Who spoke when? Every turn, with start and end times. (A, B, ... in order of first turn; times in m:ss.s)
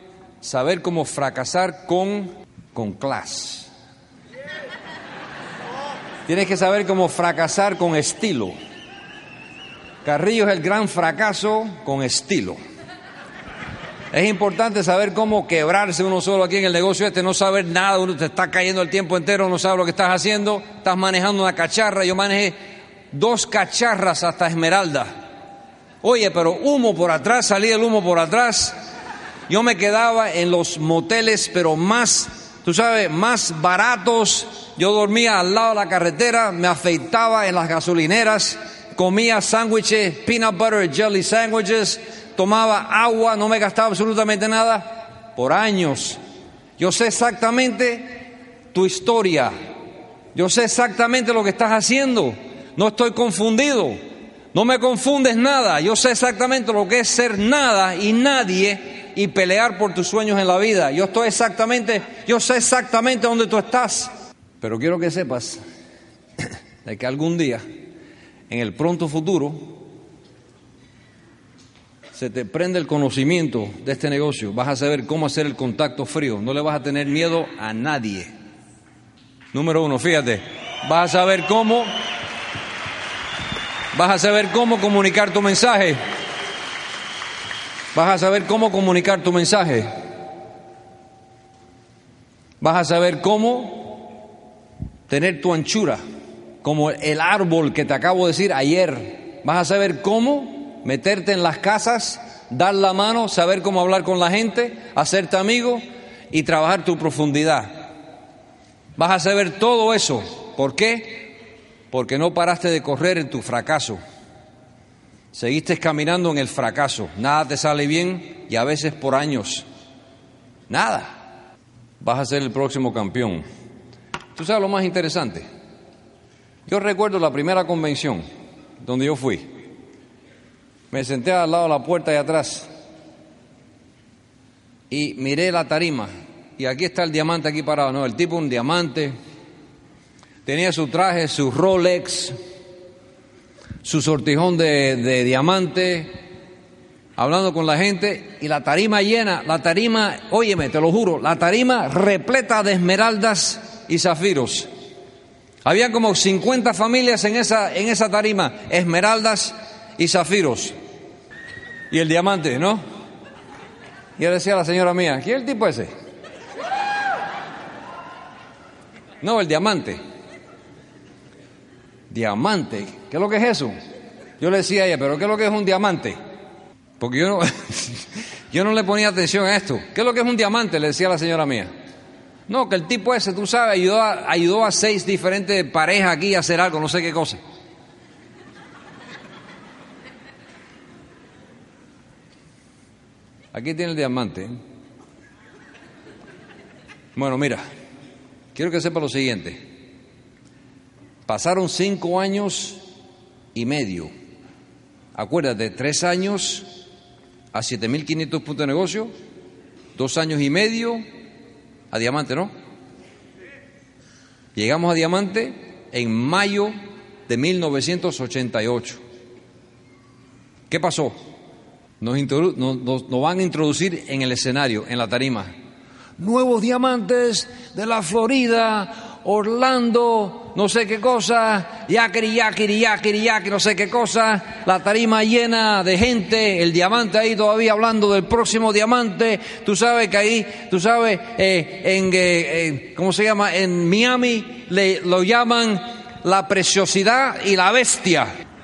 0:00.4-0:03.7 A
0:06.3-0:08.6 A
0:10.0-0:12.6 A
0:14.1-0:22.6 A
0:23.1-0:25.1 A
0:26.0-0:28.8 A
0:29.5-0:46.2 A
0:46.8-0:48.1 A
0:48.7-0:49.5 A
0:50.4-0:54.0 A
0:54.5-1:05.6 A
1:06.4-1:07.6 A
1:08.5-1:09.7 A
1:12.2-1:18.3 A
1:19.5-1:22.0 A
1:23.9-1:26.0 A
1:27.9-1:29.9 A
1:32.6-1:34.1 A
1:35.1-1:36.0 A
1:36.6-1:47.9 A
1:49.0-1:51.3 A
1:51.9-1:54.0 A
1:55.3-1:59.7 A
2:00.7-2:01.2 A
2:02.0-2:03.4 A
2:04.4-2:05.5 A
2:06.7-2:08.2 A
2:08.8-2:09.5 A
2:10.9-2:12.7 A
2:14.9-2:19.2 A
2:20.5-2:22.3 A
2:23.8-2:26.2 A
2:27.2-2:34.7 A
2:35.6-2:40.8 A
2:41.9-2:42.8 A
2:44.2-2:45.9 A
2:49.2-2:50.0 A
2:52.1-2:53.7 A
2:54.4-2:56.2 A
2:57.0-3:01.7 A
3:02.5-3:07.4 A
3:13.5-3:14.5 A
3:17.2-3:17.6 A
3:18.6-3:19.6 A
3:21.3-3:22.8 A
3:23.6-3:24.1 A
3:25.2-3:26.7 A
3:27.5-3:29.1 A
3:30.0-3:31.0 A
3:31.9-3:32.5 A
3:34.6-3:36.8 A
3:37.3-3:39.0 A
3:40.7-3:41.2 A
3:42.0-3:45.5 A
3:46.2-4:08.3 A